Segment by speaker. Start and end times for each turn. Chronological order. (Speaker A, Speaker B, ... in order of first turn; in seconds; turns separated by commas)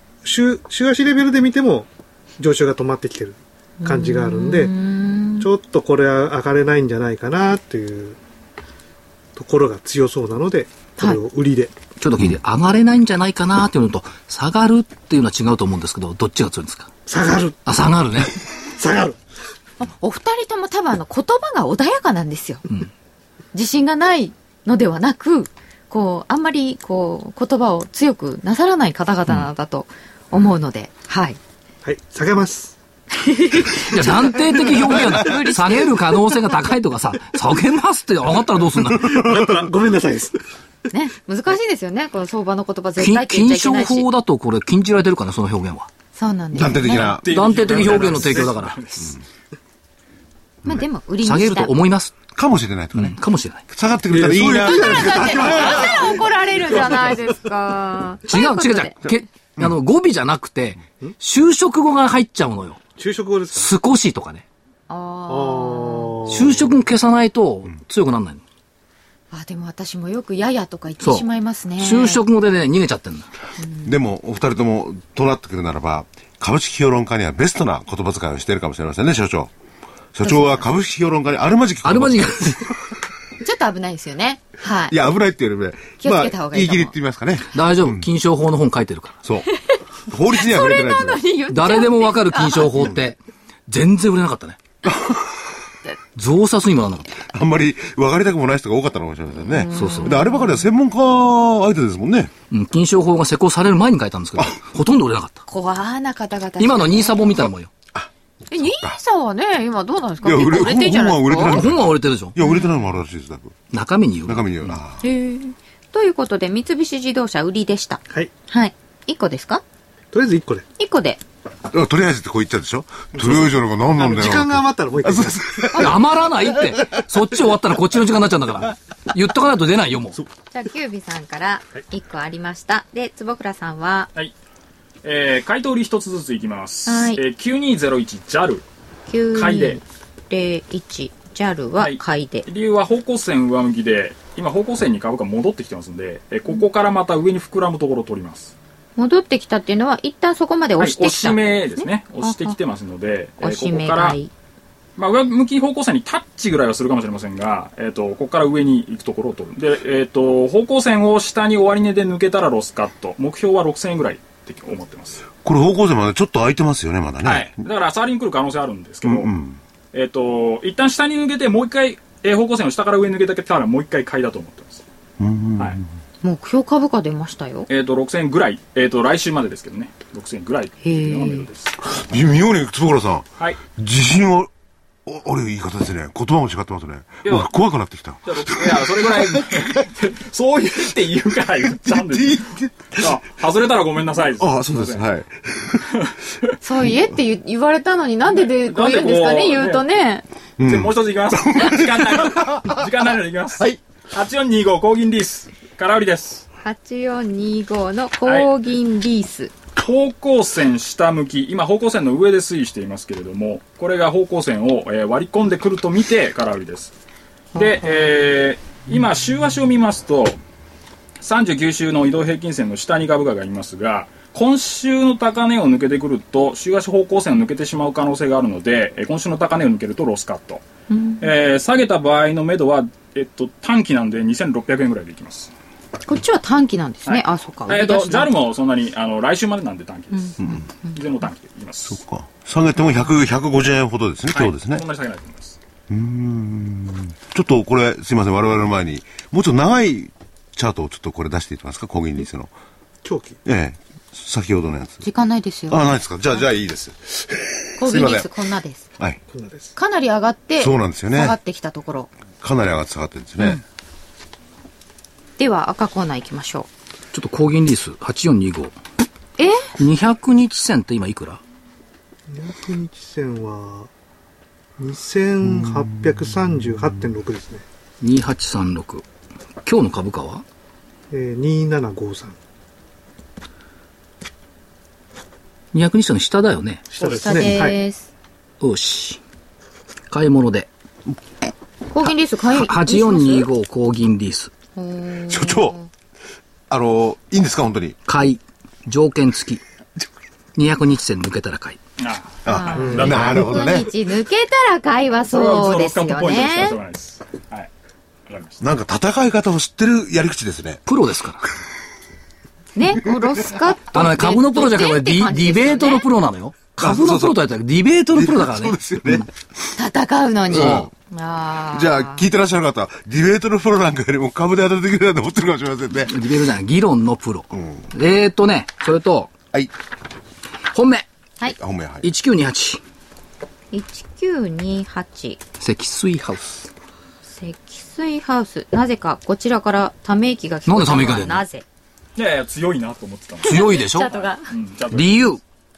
Speaker A: 0.2-4.7, Speaker B: 3.8-5.5, Speaker A: 5.4-8.2, Speaker A: 9.3-11.8, Speaker C: 12.0-16.9, Speaker A: 17.1-17.7, Speaker C: 17.6-18.3, Speaker A: 18.6-19.2, Speaker B: 19.8-22.6, Speaker B: 23.5-31.4, Speaker A: 31.8-32.8, Speaker B: 33.2-36.4, Speaker C: 33.8-39.2, Speaker A: 34.5-34.8, Speaker A: 38.9-40.4, Speaker B: 40.9-44.1, Speaker C: 43.0-45.9, Speaker B: 46.1-47.2, Speaker D: 46.5-48.0, Speaker E: 47.2-49.1, Speaker C: 47.3-49.1, Speaker B: 50.6-51.8, Speaker C: 51.2-52.1, Speaker D: 52.3-53.2, Speaker C: 52.9-53.6, Speaker D: 53.7-56.2, Speaker A: 54.1-56.2, Speaker B: 54.5-59.1, Speaker C: 58.3-62.8, Speaker A: 63.0-63.7, Speaker C: 63.5-64.4, Speaker B: 64.9-66.2, Speaker A: 65.3-66.8, Speaker C: 66.3-68.4, Speaker B: 69.3-72.2, Speaker C: 71.0-71.2, Speaker C: 71.8-73.3, Speaker B: 73.6-73.9, Speaker D: 73.8-79.5, Speaker D: 80.1-82.8, Speaker B: 80.2-80.6, Speaker C: 81.8-82.7, Speaker B: 83.4-85.0, Speaker D: 84.9-88.0, Speaker B: 86.0-86.9, Speaker C: 87.5-89.2, Speaker B: 89.5-92.7, Speaker D: 90.1-91.2, Speaker C: 91.5-94.6, Speaker D: 94.8-95.3, Speaker C: 96.2-97.2, Speaker D: 97.3-102.3, Speaker B: 99.4-100.7, Speaker C: 99.7-100.2, Speaker C: 102.5-105.4, Speaker B: 105.5-107.5, Speaker C: 106.6-107.7, Speaker D: 107.9-109.0, Speaker B: 108.5-111.6, Speaker D: 110.2-113.6, Speaker C: 111.5-112.3, Speaker C: 113.7-114.8, Speaker D: 114.2-115.0, Speaker B: 115.0-119.6, Speaker A: 120.1-120.7, Speaker B: 120.8-121.2, Speaker D: 121.7-127.0, Speaker A: 123.1-126.0, Speaker C: 125.7-130.2, Speaker B: 130.5-134.1, Speaker E: 135.0-138.6, Speaker B: 136.9-137.2, Speaker B: 139.1-142.4, Speaker E: 139.3-139.8, Speaker E: 141.8-148.5, Speaker B: 148.9-152.6, Speaker E: 150.8-154.2, Speaker B: 153.4-154.3, Speaker E: 155.0-165.2, Speaker D: 165.4-167.6, Speaker E: 167.2-169.3, Speaker D: 169.0-169.6, Speaker E: 169.9-174.8, Speaker D: 175.2-175.8, Speaker B: 176.2-177.7, Speaker E: 177.7-181.7, Speaker B: 180.8-181.5, Speaker D: 181.9-184.5, Speaker D: 185.1-189.8, Speaker E: 187.2-187.5, Speaker E: 188.2-195.1, Speaker D: 191.8-193.2, Speaker D: 194.4-196.0, Speaker B: 196.6-200.2, Speaker E: 198.4-199.9, Speaker D: 200.6-202.8, Speaker E: 200.6-206.4, Speaker B: 206.6-209.5, Speaker E: 208.2-208.5, Speaker E: 209.8-216.9, Speaker B: 217.5-218.1, Speaker E: 217.5-220.4, Speaker E: 221.2-230.6, Speaker B: 230.9-231.2, Speaker E: 231.2-235.5, Speaker B: 236.1-238.3, Speaker E: 237.1-242.0, Speaker B: 240.1-241.0, Speaker D: 241.9-244.8, Speaker E: 244.3-245.6, Speaker D: 245.9-252.5, Speaker A: 253.0-253.4, Speaker D: 253.4-255.0, Speaker B: 255.0-255.8, Speaker D: 255.7-258.3, Speaker B: 257.8-258.9, Speaker A: 259.3-259.7, Speaker B: 259.7-262.1, Speaker D: 260.6-261.4, Speaker D: 262.4-263.6, Speaker B: 265.4-266.7, Speaker C: 267.1-268.7, Speaker B: 269.4-269.7, Speaker C: 269.8-271.4, Speaker A: 272.3-273.9, Speaker A: 274.8-277.6, Speaker C: 278.0-279.0, Speaker C: 279.6-280.4, Speaker A: 281.1-282.4, Speaker C: 285.7-287.5, Speaker A: 286.9-287.8, Speaker B: 287.0-288.1, Speaker C: 288.6-289.2, Speaker C: 290.1-290.7, Speaker B: 291.9-293.5, Speaker C: 292.5-294.5, Speaker B: 294.8-295.9, Speaker D: 295.3-295.8, Speaker D: 296.7-298.0, Speaker C: 298.1-299.6, Speaker C: 300.6-301.8, Speaker E: 302.0-303.8, Speaker D: 302.4-303.9, Speaker B: 302.4-306.8, Speaker E: 305.3-307.7, Speaker E: 308.3-308.6, Speaker D: 308.6-310.8, Speaker C: 310.9-311.4, Speaker B: 312.7-316.1, Speaker C: 313.9-319.2, Speaker D: 316.8-317.4, Speaker D: 318.1-319.3, Speaker B: 319.8-322.2, Speaker D: 320.5-320.9, Speaker C: 320.5-320.9, Speaker D: 321.6-326.1, Speaker C: 326.1-329.3, Speaker D: 327.5-327.9, Speaker C: 330.7-331.1, Speaker D: 331.5-332.1, Speaker C: 332.0-332.8, Speaker B: 333.7-335.4, Speaker C: 335.6-336.6, Speaker B: 337.3-341.6, Speaker C: 340.6-341.4, Speaker E: 342.2-345.3, Speaker C: 343.4-344.1, Speaker B: 343.4-344.4, Speaker C: 344.9-345.4